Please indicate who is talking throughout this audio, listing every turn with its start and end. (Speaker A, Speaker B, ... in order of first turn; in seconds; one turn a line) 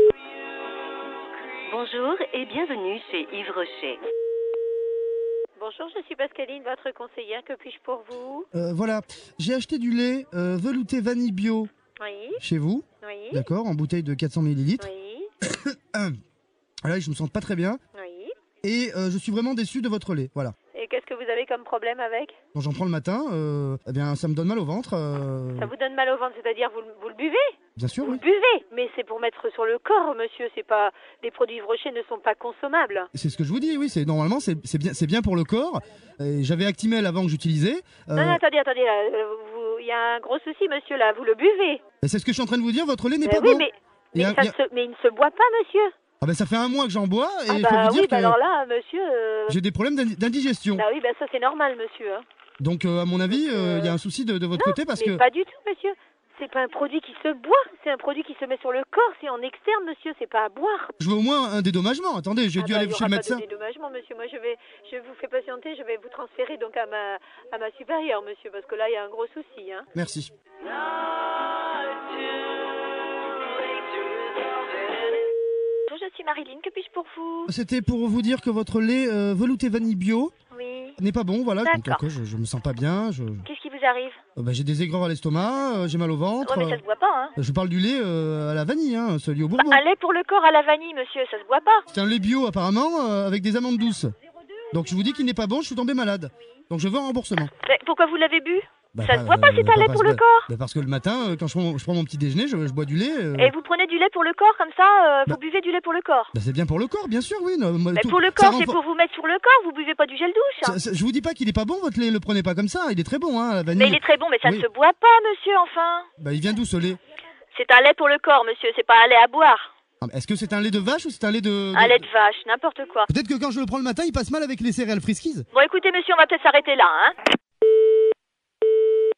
Speaker A: 1.7-4.0
Speaker B: 5.6-8.5
Speaker C: 8.5-11.7
Speaker B: 12.0-12.4
Speaker C: 12.4-14.9
Speaker B: 13.0-13.5
Speaker B: 14.8-15.3
Speaker C: 15.4-16.2
Speaker C: 16.8-17.8
Speaker B: 17.9-18.3
Speaker C: 18.6-20.5
Speaker B: 20.7-22.4
Speaker C: 22.5-25.7
Speaker B: 25.6-27.5
Speaker C: 27.8-28.2
Speaker B: 28.0-33.1
Speaker C: 33.1-38.4
Speaker B: 38.1-41.8
Speaker C: 42.0-44.6
Speaker B: 43.2-45.9
Speaker C: 46.2-48.4
Speaker B: 47.5-49.6
Speaker C: 49.5-50.9
Speaker B: 50.8-52.2
Speaker C: 52.6-55.2
Speaker B: 53.3-54.0
Speaker B: 54.5-60.9
Speaker C: 61.0-63.4
Speaker B: 62.6-69.9
Speaker C: 69.9-70.3
Speaker D: 75.9-77.5
Speaker C: 77.5-80.3
Speaker D: 80.6-81.0
Speaker C: 81.0-83.5
Speaker D: 81.7-82.0
Speaker D: 83.4-84.2
Speaker C: 84.4-86.8
Speaker D: 86.4-87.3
Speaker C: 87.4-89.8
Speaker D: 89.6-91.8
Speaker C: 91.9-94.1
Speaker C: 94.7-97.5
Speaker D: 97.6-100.5
Speaker C: 98.9-103.5
Speaker D: 103.4-106.3
Speaker C: 106.3-108.8
Speaker D: 108.0-110.8
Speaker C: 110.6-114.7
Speaker D: 113.8-116.1
Speaker C: 116.2-117.0
Speaker D: 117.5-119.7
Speaker C: 120.0-122.1
Speaker D: 121.7-123.1
Speaker C: 123.1-125.5
Speaker D: 125.5-127.2